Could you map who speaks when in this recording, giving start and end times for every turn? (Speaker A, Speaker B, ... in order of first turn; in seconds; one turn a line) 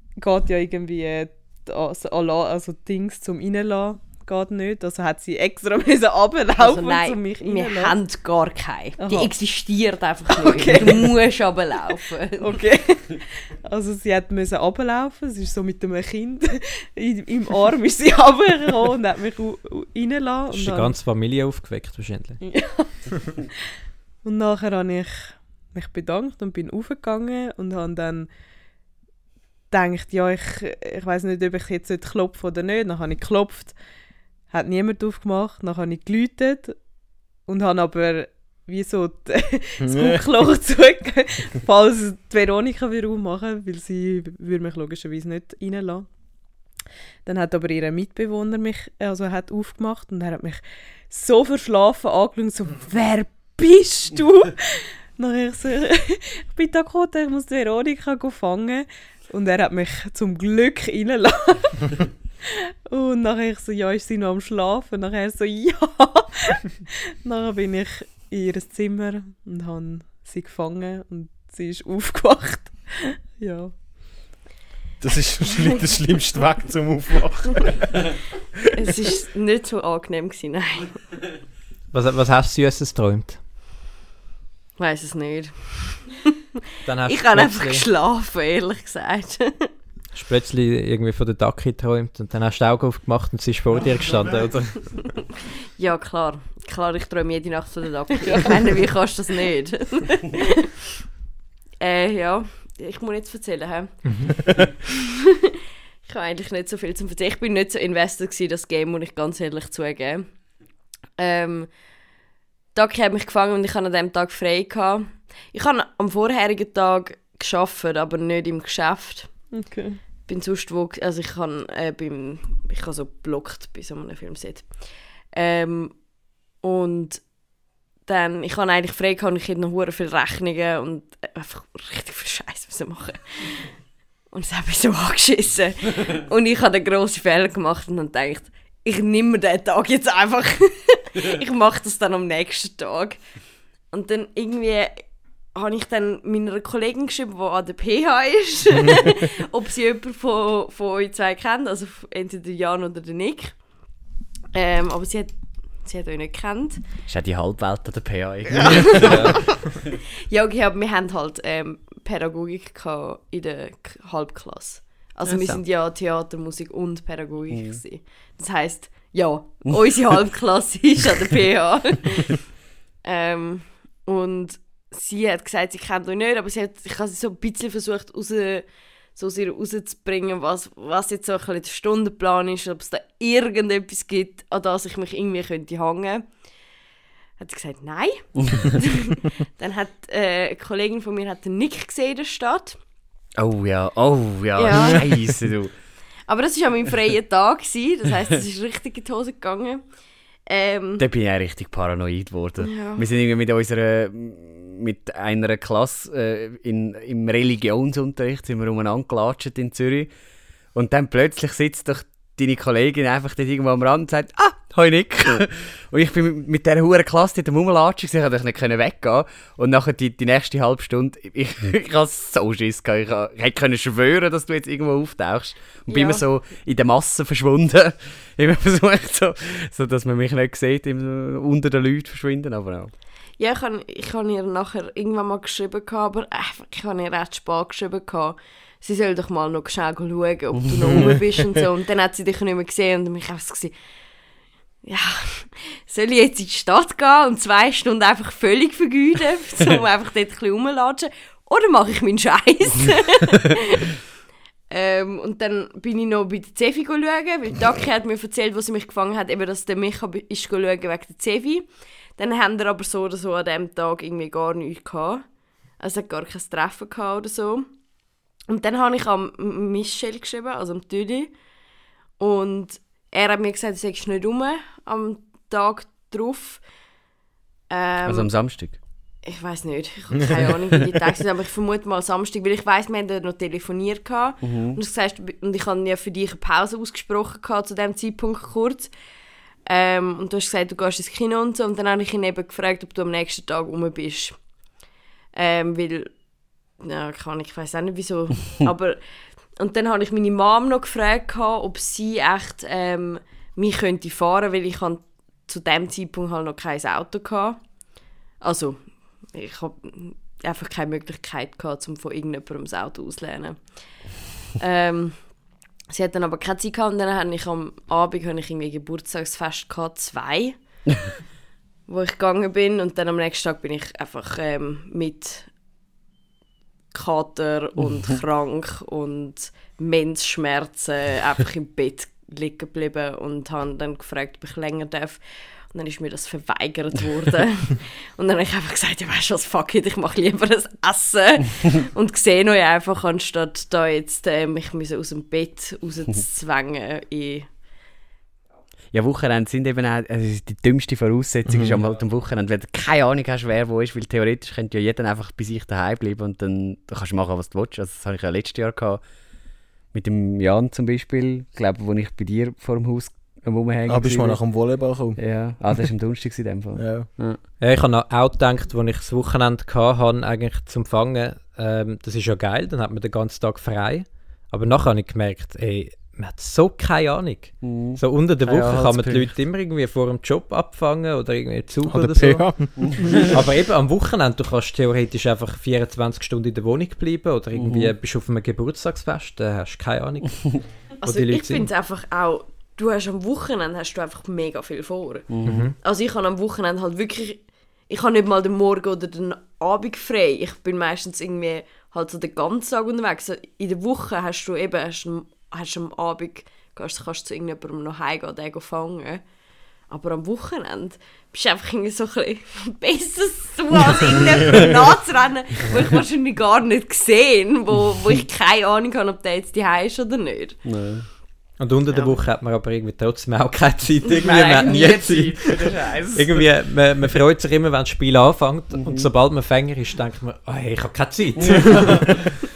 Speaker A: 0.2-8.0
Speaker B: 6.6-12.5
Speaker A: 9.0-9.3
Speaker A: 10.3-11.1
Speaker A: 12.4-20.9
Speaker C: 20.5-22.4
Speaker A: 22.4-23.5
Speaker A: 24.2-28.3
Speaker A: 29.7-33.7
Speaker A: 34.5-36.8
Speaker A: 37.5-46.1
Speaker D: 39.8-40.2
Speaker A: 47.2-73.7
Speaker D: 75.0-78.0
Speaker B: 78.7-81.0
Speaker C: 81.9-83.4
Speaker B: 84.8-86.3
Speaker C: 86.8-87.8
Speaker B: 87.0-89.7
Speaker C: 90.1-94.9
Speaker B: 95.0-100.7
Speaker A: 98.3-98.6
Speaker B: 101.8-104.5
Speaker C: 104.0-104.3
Speaker B: 106.0-110.3
Speaker B: 111.2-111.7
Speaker B: 112.7-119.3
Speaker A: 119.5-120.0
Speaker B: 120.3-124.7
Speaker B: 125.3-126.0
Speaker B: 126.6-127.2
Speaker B: 128.1-133.7
Speaker B: 134.3-143.2
Speaker B: 143.9-153.6
Speaker B: 154.5-156.8
Speaker E: 157.1-159.5
Speaker B: 158.6-159.6
Speaker C: 158.9-159.4
Speaker B: 160.3-172.4
Speaker E: 165.2-165.6
Speaker E: 167.5-167.8
Speaker B: 173.0-186.3
Speaker B: 187.4-192.8
Speaker E: 193.4-195.7
Speaker B: 194.5-195.1
Speaker B: 196.3-199.8
Speaker B: 200.5-201.0
Speaker E: 201.0-210.1
Speaker B: 202.6-203.1
Speaker E: 210.7-232.9
Speaker B: 225.9-226.2
Speaker B: 233.4-243.7
Speaker E: 240.6-241.1
Speaker B: 244.8-253.9
Speaker B: 254.7-265.2
Speaker B: 265.8-267.7
Speaker B: 268.5-271.3
Speaker B: 272.2-276.6
Speaker B: 277.7-278.3
Speaker E: 278.0-278.8
Speaker B: 279.2-288.9
Speaker E: 284.4-284.8
Speaker B: 289.6-294.4
Speaker B: 295.3-296.1
Speaker B: 296.8-299.0
Speaker B: 299.6-307.6
Speaker B: 308.4-313.7
Speaker B: 314.5-315.3
Speaker B: 315.9-320.6
Speaker B: 321.9-325.5
Speaker B: 326.9-347.5
Speaker E: 348.9-359.0
Speaker D: 351.4-351.8
Speaker E: 359.9-364.4
Speaker D: 363.9-365.2
Speaker E: 365.2-367.4
Speaker D: 366.7-367.1
Speaker C: 367.6-382.5
Speaker E: 377.6-379.3
Speaker D: 381.9-383.3
Speaker E: 382.8-383.2
Speaker C: 383.3-391.6
Speaker E: 387.5-387.9
Speaker B: 391.0-409.2
Speaker E: 395.3-395.7
Speaker C: 395.4-395.7
Speaker B: 409.9-420.6
Speaker E: 420.6-421.1
Speaker C: 421.6-425.5
Speaker B: 421.9-422.2
Speaker E: 424.2-426.4
Speaker C: 426.1-432.2
Speaker E: 428.7-429.1
Speaker E: 431.5-431.9